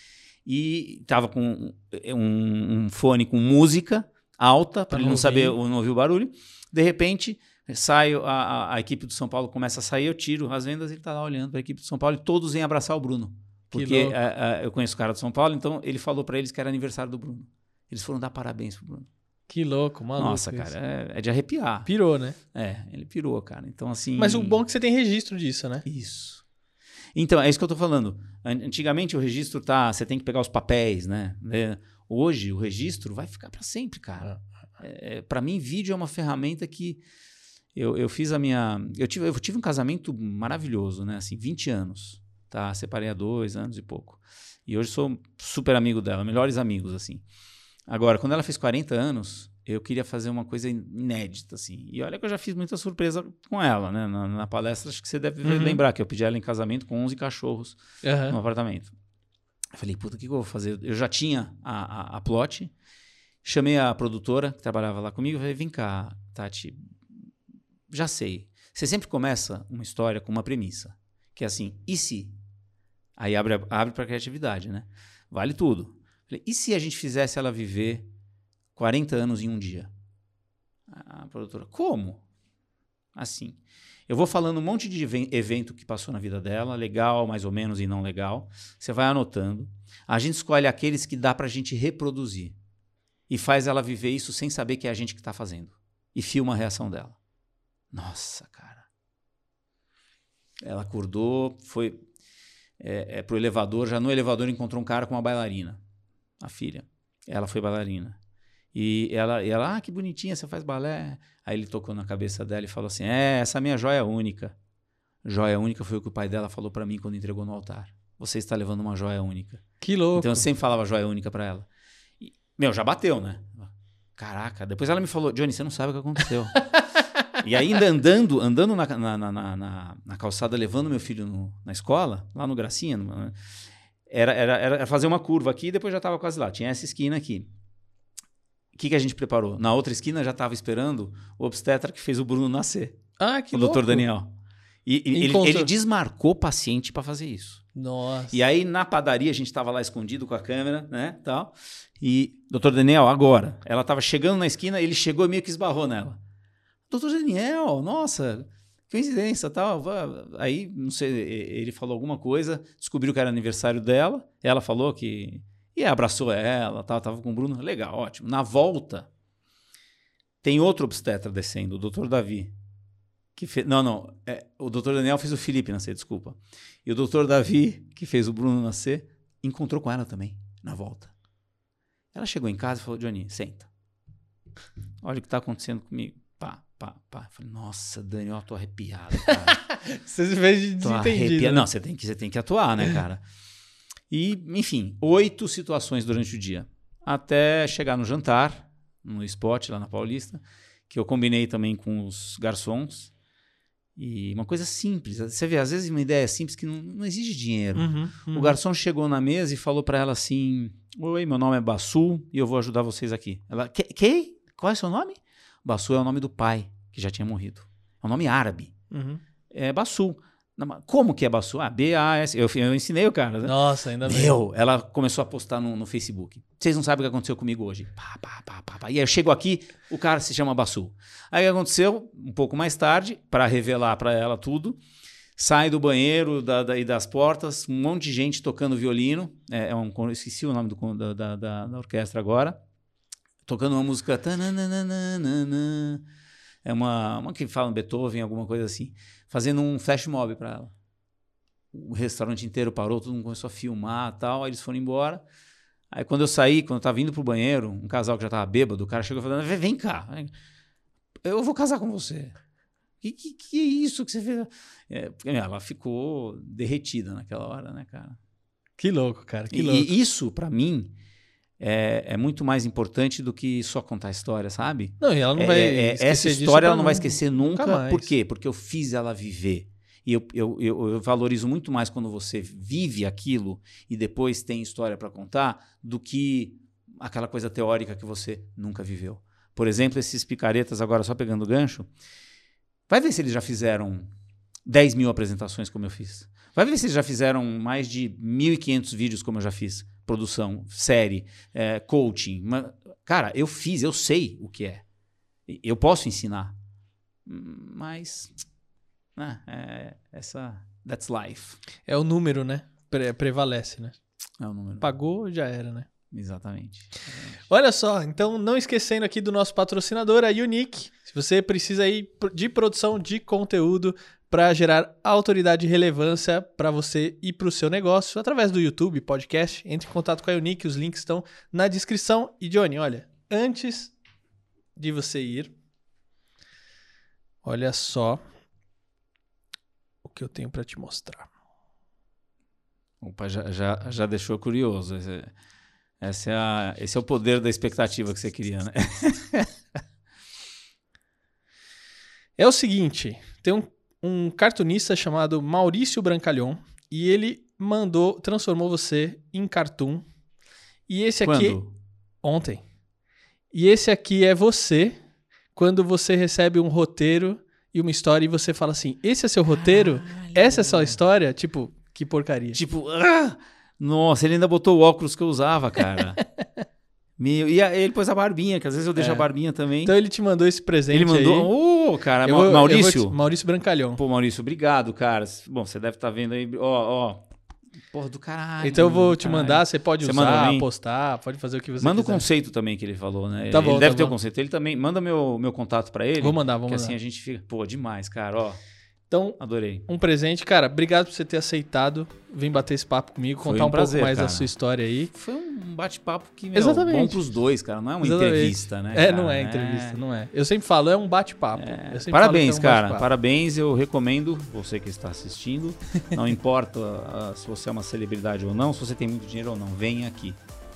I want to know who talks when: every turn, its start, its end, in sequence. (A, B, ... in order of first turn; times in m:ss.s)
0:00.4-0:19.1 A
0:04.9-0:05.6 B
0:13.7-0:14.2 B
0:19.5-0:20.7 B
0:20.2-0:21.9 A
0:21.9-0:22.4 B
0:22.5-0:24.6 A
0:24.2-0:25.8 B
0:25.8-0:26.4 A
0:27.1-0:37.0 A
0:37.8-0:47.2 A
0:47.9-0:58.9 A
0:55.4-0:55.8 B
0:58.0-0:58.4 B
0:59.8-1:02.7 A
1:03.4-1:07.0 A
1:07.9-1:12.4 A
1:13.2-1:18.1 A
1:18.8-1:19.9 A
1:20.9-1:22.2 A
1:23.2-1:32.6 A
1:33.3-1:37.2 A
1:37.9-1:38.9 A
1:40.6-1:42.0 A
1:42.8-1:45.8 A
1:46.4-1:48.2 A
1:48.7-1:54.6 A
1:55.2-1:59.6 A
1:59.8-2:00.5 B
2:00.2-2:01.7 A
2:02.2-2:06.7 A
2:07.4-2:13.4 A
2:14.1-2:17.5 A
2:18.8-2:23.0 A
2:23.2-2:24.1 B
2:23.5-2:24.3 A
2:24.9-2:27.6 A
2:25.1-2:25.7 B
2:27.8-2:28.4 B
2:28.3-2:36.2 A
2:36.9-2:49.1 A
2:50.4-2:52.5 A
2:53.4-3:01.1 A
3:02.1-3:03.7 A
3:05.0-3:09.6 A
3:09.6-3:11.7 B
3:10.8-3:13.2 A
3:14.1-3:23.1 A
3:24.0-3:38.7 A
3:27.8-3:28.6 B
3:38.9-3:39.2 B
3:39.5-3:54.8 A
3:43.4-3:44.4 B
3:55.4-4:02.6 A
4:03.4-4:06.0 A
4:06.6-4:10.7 A
4:11.7-4:15.2 A
4:15.9-4:20.3 A
4:21.2-4:22.4 A
4:23.0-4:28.2 A
4:28.8-4:29.9 B
4:29.5-4:30.9 A
4:31.6-4:51.9 A
4:35.0-4:38.1 B
4:52.9-4:54.1 A
4:54.7-5:04.8 A
5:05.5-5:06.6 A
5:07.3-5:08.3 A
5:09.2-5:11.6 A
5:11.9-5:14.0 B
5:14.4-5:14.9 A
5:14.8-5:15.9 B
5:16.1-5:17.4 A
5:17.5-5:33.9 B
5:34.8-5:35.5 B
5:37.4-5:38.2 B
5:40.0-5:41.3 B
5:43.0-5:45.3 A
5:46.0-5:49.5 A
5:52.4-6:00.1 B
6:00.9-6:01.6 B
6:01.2-6:01.7 A
6:02.2-6:02.6 B
6:03.5-6:05.0 B
6:05.6-6:12.6 B
6:09.5-6:11.0 A
6:12.5-6:16.2 A
6:17.2-6:20.0 A
6:19.0-6:19.3 B
6:19.8-6:21.5 B
6:20.9-6:23.2 A
6:22.2-6:24.0 B
6:24.0-6:27.3 A
6:27.9-6:30.7 A
6:28.6-6:32.3 B
6:31.8-6:38.6 A
6:33.5-6:34.2 B
6:36.2-6:37.0 B
6:39.1-6:45.1 B
6:39.4-6:39.9 A
6:43.4-6:44.5 A
6:45.1-6:50.0 A
6:46.5-6:47.2 B
6:48.0-6:53.0 B
6:51.6-7:00.4 A